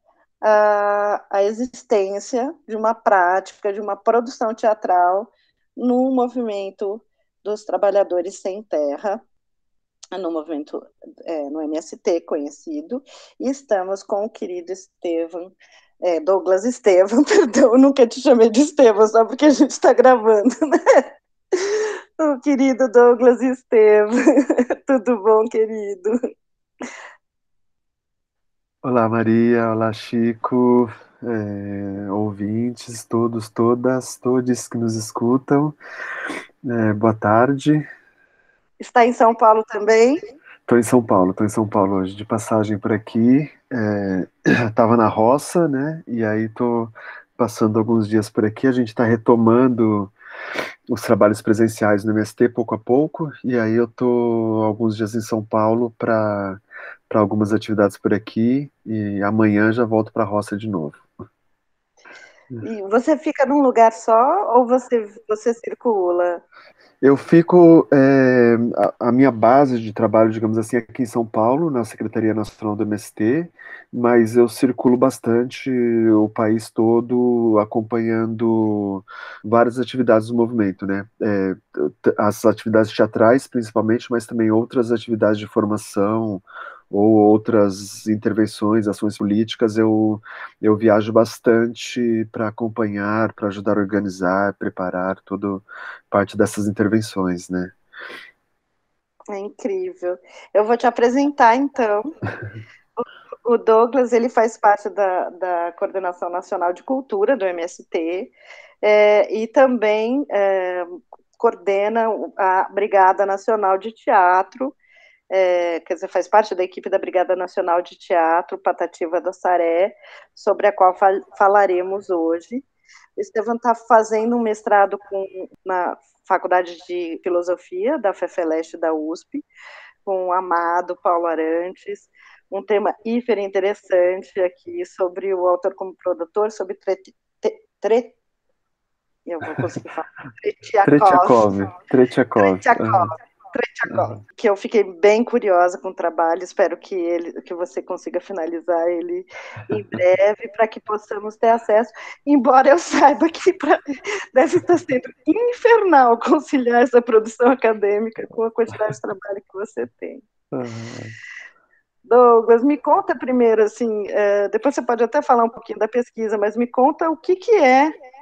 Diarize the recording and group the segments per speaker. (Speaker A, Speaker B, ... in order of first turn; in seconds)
Speaker A: 0.4-9.2, 10.2-26.2, 38.8-40.2, 62.6-66.4, 99.3-102.1, 103.0-114.8, 115.3-122.6, 123.2-129.4, 130.0-138.2, 139.2-141.4, 142.4-153.8, 154.3-160.2, 162.1-167.9
Speaker B: 28.8-35.8, 36.6-37.9, 40.7-50.1, 50.9-61.0, 67.0-97.7, 140.8-143.1, 160.5-161.1